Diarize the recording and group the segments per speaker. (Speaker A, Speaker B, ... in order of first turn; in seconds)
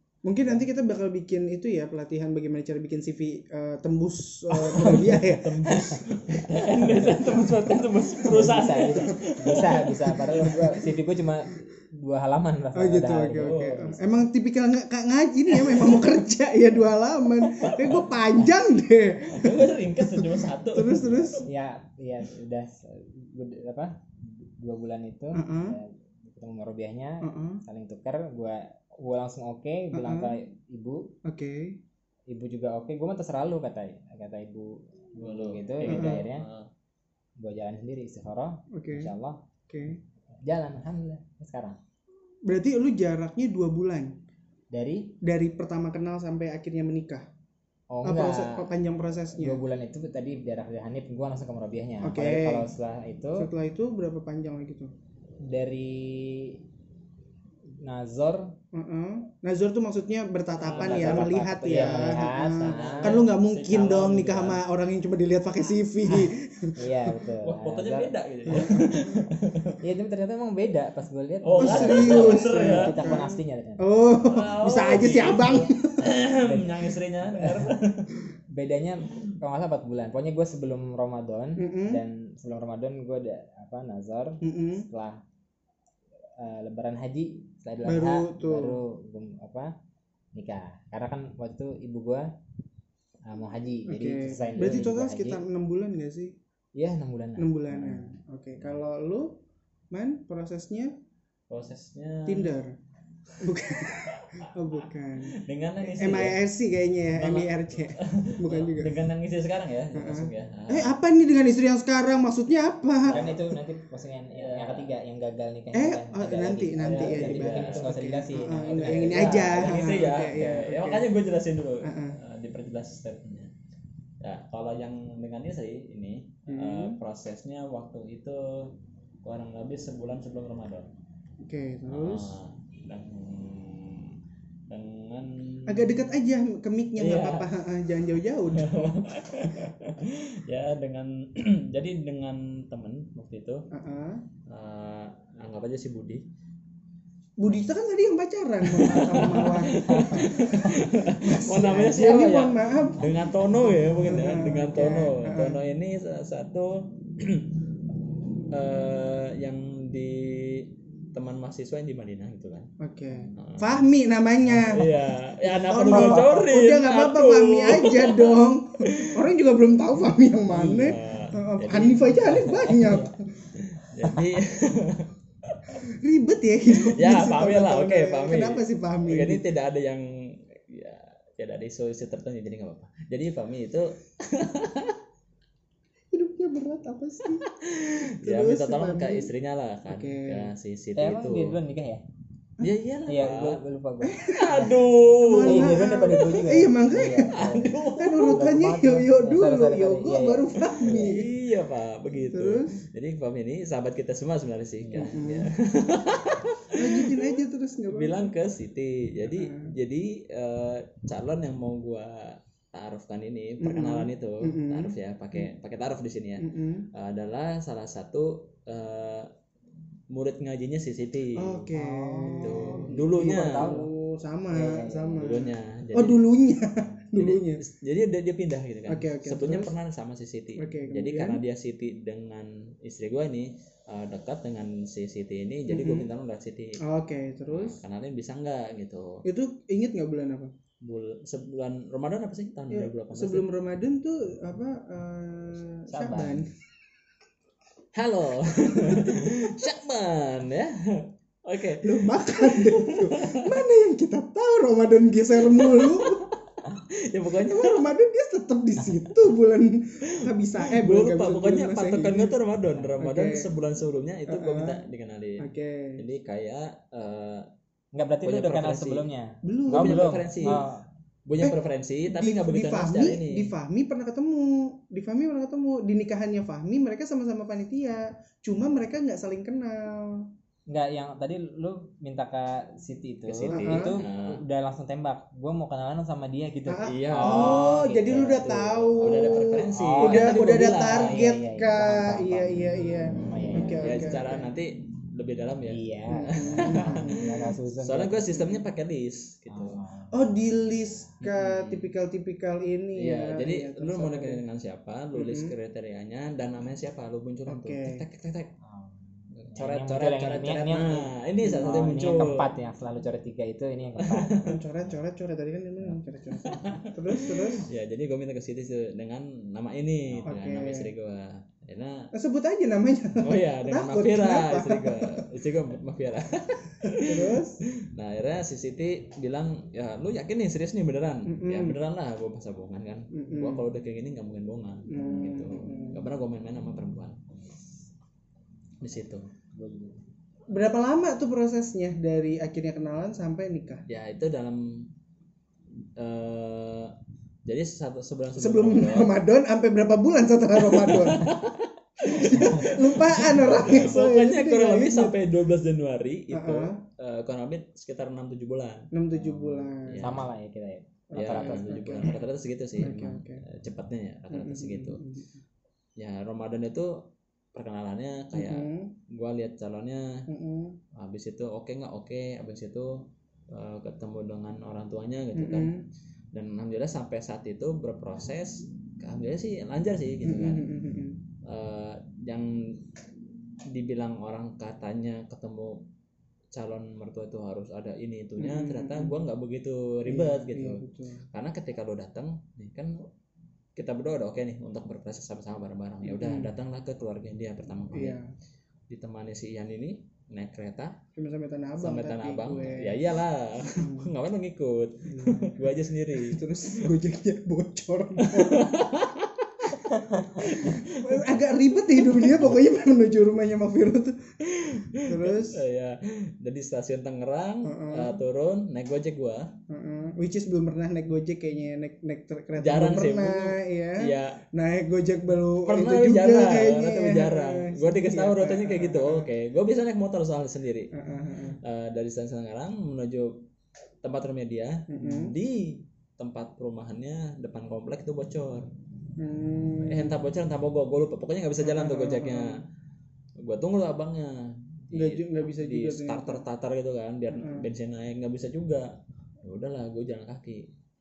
Speaker A: 0.2-5.7, 6.8-10.8, 12.8-21.4, 25.3-25.8, 27.2-27.6, 29.9-30.4, 31.2-31.8, 35.9-36.3, 38.7-39.1, 39.7-40.0, 42.5-44.1, 45.2-47.3, 48.0-49.6, 52.0-52.7, 53.4-54.9, 58.7-67.2, 68.5-69.2, 71.6-76.2, 81.6-82.0, 84.4-84.9, 87.8-88.8, 93.9-96.4, 97.4-99.4, 99.9-100.9, 102.3-102.8, 103.4-109.0, 109.9-113.5, 115.7-121.1, 121.8-122.2, 126.5-127.0, 131.4-132.4, 135.7-139.7, 143.7-144.2, 147.4-155.6, 162.8-173.2, 175.9-179.5, 186.1-187.5, 188.2-189.3, 189.9-190.5, 194.0-201.3, 202.2-202.7, 204.9-205.5, 206.7-208.3, 209.3-209.7, 213.6-215.5, 216.4-216.9, 221.4-227.6, 228.9-229.7, 230.6-231.4, 235.7-236.1, 236.8-237.8, 239.2-240.5, 242.7-246.5, 248.8-249.4, 251.8-256.2, 257.3-262.4, 263.0-263.5, 264.3-264.8, 265.4-266.0, 269.4-270.1, 271.4-280.3, 283.5-284.0, 286.7-294.5, 296.1-297.4, 300.1-304.4, 305.1-305.5, 307.5-308.0, 311.4-311.7, 314.4-317.7, 320.3-320.9, 322.1-325.3, 326.8-327.6, 331.3-331.8, 333.1-333.6, 334.9-336.0, 340.5-343.8, 348.4-351.3, 352.0-355.2, 356.3-356.8, 358.9-360.2, 361.1-362.2, 362.8-363.4, 364.3-365.4, 368.3-368.9, 370.3-370.8, 375.4-375.9, 380.2-381.2, 388.4-389.2, 390.1-391.3, 396.0-396.5, 397.9-398.2, 401.1-404.1, 405.1-408.8, 410.4-414.2, 415.0-415.6, 417.6-418.2, 419.7-429.3, 430.9-431.6, 434.9-435.4, 439.2-440.2, 441.6-442.6, 444.9-446.4, 447.3-447.7
Speaker B: 4.7-6.0, 6.7-7.5, 8.2-14.2, 21.4-31.1, 32.3-36.5, 37.4-39.4, 40.4-41.8, 44.7-45.1, 47.9-48.7, 49.4-53.5, 55.5-56.6, 57.8-58.5, 60.7-63.2, 66.8-68.1, 69.8-74.0, 76.3-77.7, 78.5-85.2, 86.4-89.7, 90.3-92.3, 93.3-95.4, 96.8-98.1, 113.1-120.0, 170.5-170.9, 172.7-173.0, 191.0-192.0, 193.1-194.8, 195.4-201.2, 204.8-205.2, 221.7-223.9, 224.5-225.3, 267.9-270.8, 280.7-288.5, 289.7-294.2, 295.7-298.5, 299.5-301.1, 308.6-314.4, 337.4-337.8, 339.4-340.1, 360.0-361.7
Speaker C: 4.8-10.8, 13.4-13.8, 15.6-16.0, 17.6-18.2, 19.3-21.4, 35.2-36.7, 60.6-64.6, 67.4-69.8, 71.4-73.2, 74.2-78.2, 101.5-102.6, 103.8-106.4, 107.1-111.0, 114.3-115.0, 116.8-123.5, 124.2-128.7, 129.2-130.9, 131.9-134.2, 134.7-136.1, 137.0-137.5, 138.5-143.6, 144.5-146.2, 148.6-157.5, 158.5-162.7, 163.3-163.9, 164.5-169.2, 170.6-175.8, 176.9-185.0, 187.4-191.6, 192.6-193.6, 194.3-196.3, 197.4-198.4, 200.8-207.3, 207.9-219.3, 220.1-221.7, 222.4-223.8, 225.2-226.2, 227.2-236.8, 237.5-239.2, 240.8-243.4, 245.9-246.5, 247.9-253.6, 255.5-257.9, 260.2-267.5, 268.2-269.0, 269.7-270.6, 271.3-273.5, 283.3-284.4, 286.9-291.3, 293.8-299.8, 301.2-301.9, 303.0-308.5, 309.3-312.5, 314.0-314.6, 316.4-322.1, 323.2-337.2, 338.8-339.3, 343.9-344.9, 346.0-346.9, 347.5-349.2, 350.6-360.3, 361.1-365.0, 366.0-367.0, 367.5-370.2, 371.0-375.7, 376.3-380.7, 381.5-382.8, 383.7-385.8, 386.5-390.8, 391.3-393.1, 393.8-398.2, 398.9-401.0, 401.8-406.9, 408.2-412.5, 414.4-419.5, 422.6-424.4, 425.7-430.9, 431.6-433.4, 434.0-438.7, 439.8-442.6, 443.4-448.9, 449.4-450.7